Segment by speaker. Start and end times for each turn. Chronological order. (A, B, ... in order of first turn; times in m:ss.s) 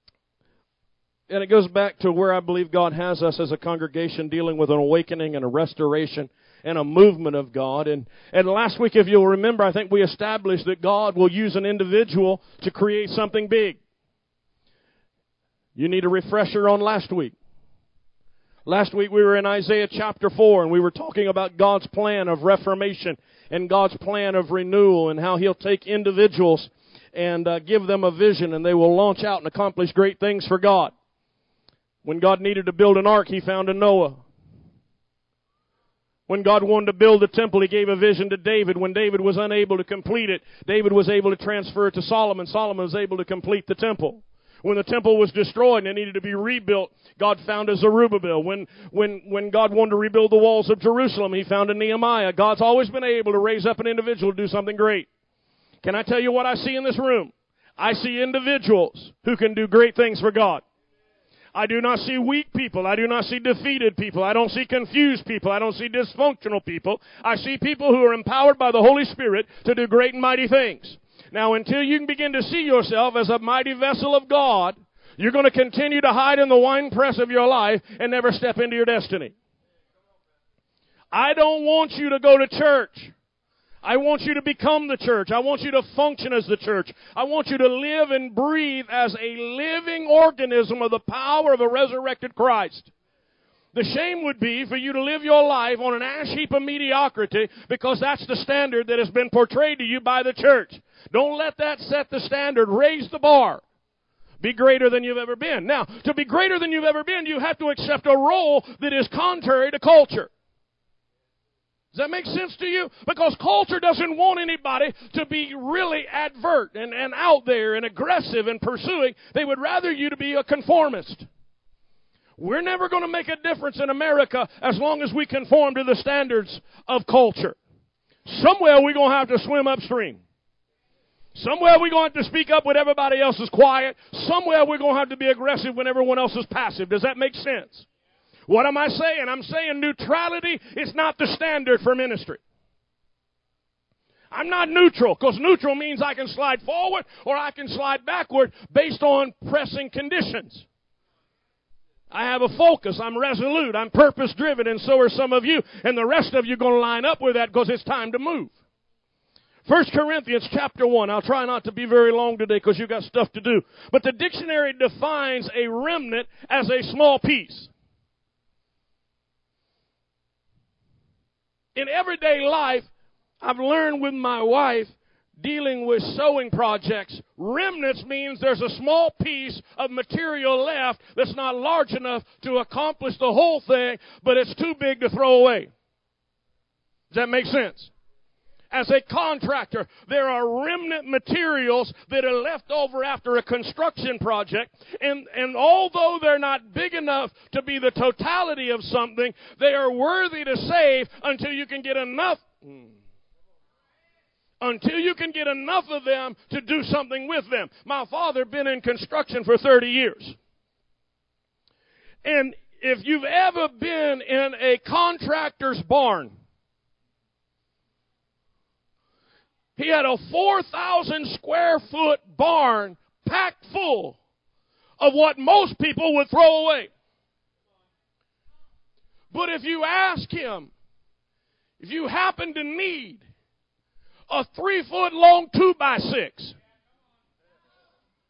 0:01.3-0:13.8 A
0:15.8-0:17.3 A
0:18.6-0:30.9 A
0:32.0-0:34.2 A
0:36.3-0:55.1 A
0:55.8-1:00.6 A
1:01.5-1:19.3 A
1:21.1-1:23.1 A
1:23.8-1:32.9 A
1:33.7-1:43.6 A
1:44.4-1:50.3 A
1:51.9-2:01.2 A
2:02.4-2:07.6 A
2:08.2-2:10.2 A
2:11.3-2:17.8 A
2:18.5-2:22.4 A
2:24.3-2:30.6 A
2:32.1-2:38.5 A
2:39.6-2:47.7 A
2:51.7-2:52.9 A
2:53.4-3:05.7 A
3:07.1-3:07.9 A
3:08.7-3:22.9 A
3:24.6-3:30.4 A
3:32.2-3:36.3 A
3:39.8-3:44.2 A
3:45.0-3:46.9 A
3:49.3-3:50.7 A
3:51.8-3:53.2 A
3:54.3-3:56.5 A